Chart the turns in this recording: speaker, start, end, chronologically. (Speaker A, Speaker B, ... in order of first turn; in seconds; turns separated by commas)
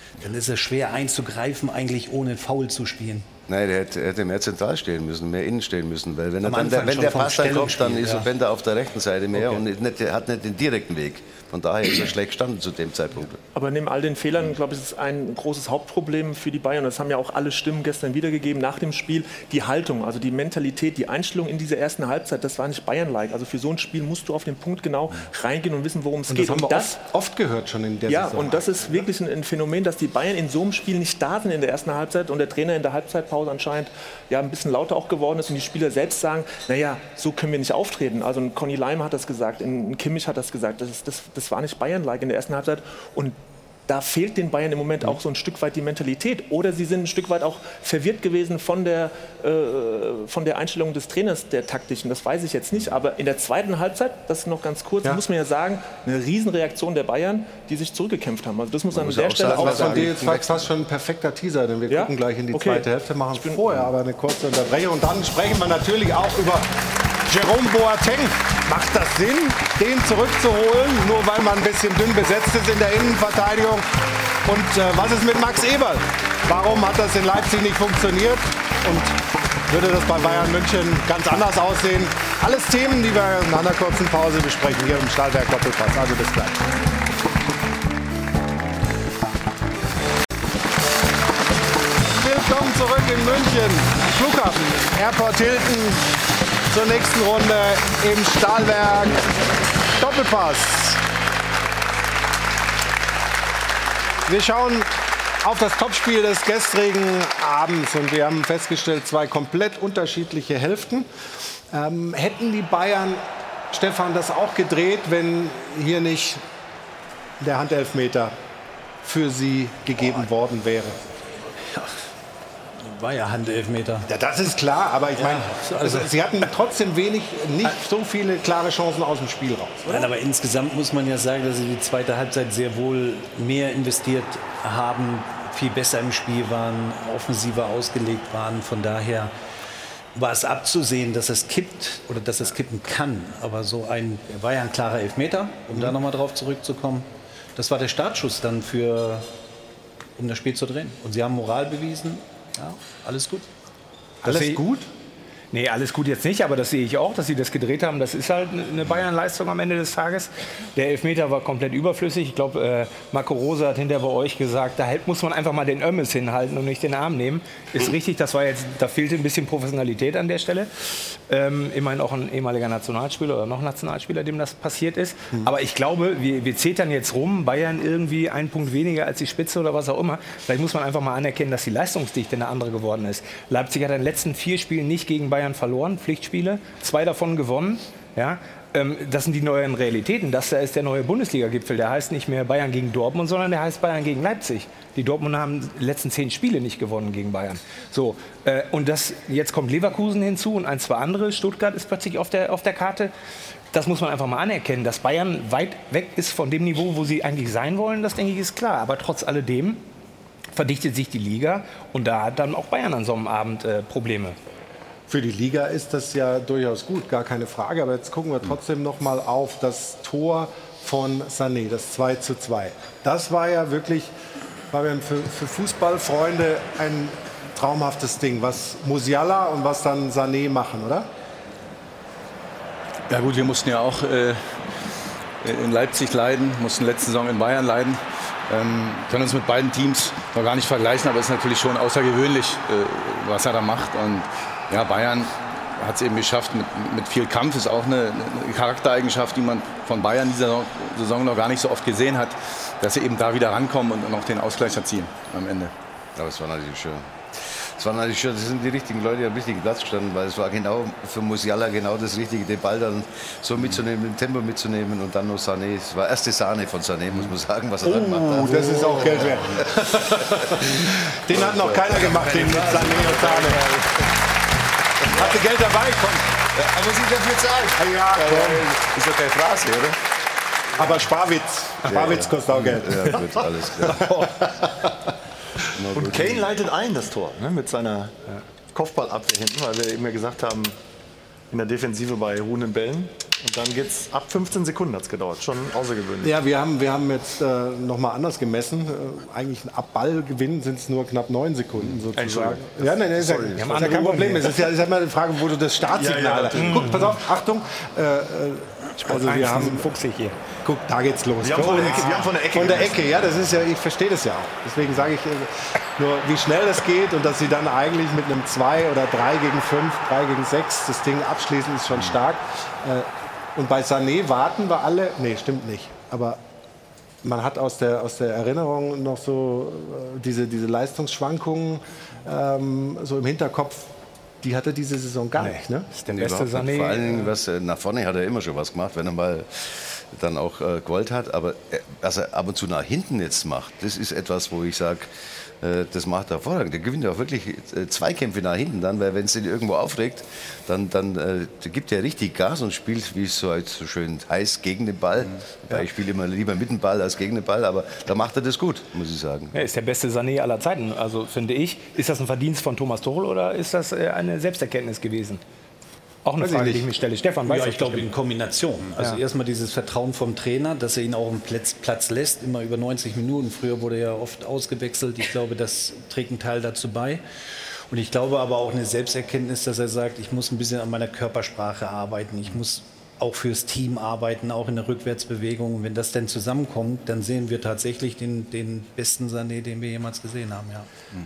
Speaker A: 0.2-3.3, Speaker B: 3.5-13.4, Speaker A: 6.4-8.3, Speaker A: 9.3-9.6, Speaker C: 13.5-27.0, Speaker D: 26.3-29.1, Speaker C: 28.1-43.4, Speaker C: 43.9-60.1, Speaker B: 58.9-60.7, Speaker D: 59.4-66.7, Speaker C: 61.9-63.8, Speaker D: 67.3-73.8, Speaker D: 74.5-86.6, Speaker D: 92.1-96.1, Speaker D: 96.7-99.3, Speaker D: 100.0-101.0, Speaker D: 104.3-111.1, Speaker D: 111.7-116.4, Speaker D: 117.4-118.3, Speaker D: 119.0-121.0, Speaker A: 121.6-122.0, Speaker A: 122.8-124.1, Speaker D: 124.1-130.0, Speaker A: 125.2-126.1, Speaker A: 129.8-139.3, Speaker A: 140.1-149.3, Speaker A: 150.2-153.5, Speaker E: 154.2-154.6, Speaker D: 154.2-154.9, Speaker E: 155.5-203.1, Speaker E: 203.7-209.8, Speaker E: 210.5-214.4, Speaker D: 215.1-224.1, Speaker D: 224.7-231.1, Speaker F: 233.1-234.7, Speaker F: 235.4-255.7, Speaker B: 256.1-273.5, Speaker D: 267.8-273.6, Speaker D: 275.1-276.4, Speaker B: 276.6-279.9, Speaker D: 277.7-278.7, Speaker D: 280.8-283.2, Speaker B: 281.8-284.1, Speaker D: 283.8-284.9, Speaker B: 285.7-286.4, Speaker G: 285.9-288.1, Speaker G: 288.7-290.7, Speaker G: 291.5-296.3, Speaker D: 296.2-309.9, Speaker G: 302.1-303.9, Speaker E: 303.5-304.5, Speaker G: 305.9-307.0, Speaker E: 306.5-307.1, Speaker E: 309.0-310.4, Speaker D: 310.6-326.4, Speaker G: 311.4-313.2, Speaker E: 311.8-312.2, Speaker D: 327.2-335.9, Speaker E: 335.4-337.3, Speaker B: 336.1-359.6, Speaker E: 359.5-365.4, Speaker E: 366.2-368.1, Speaker D: 366.4-366.9, Speaker A: 367.4-377.2, Speaker A: 377.9-390.9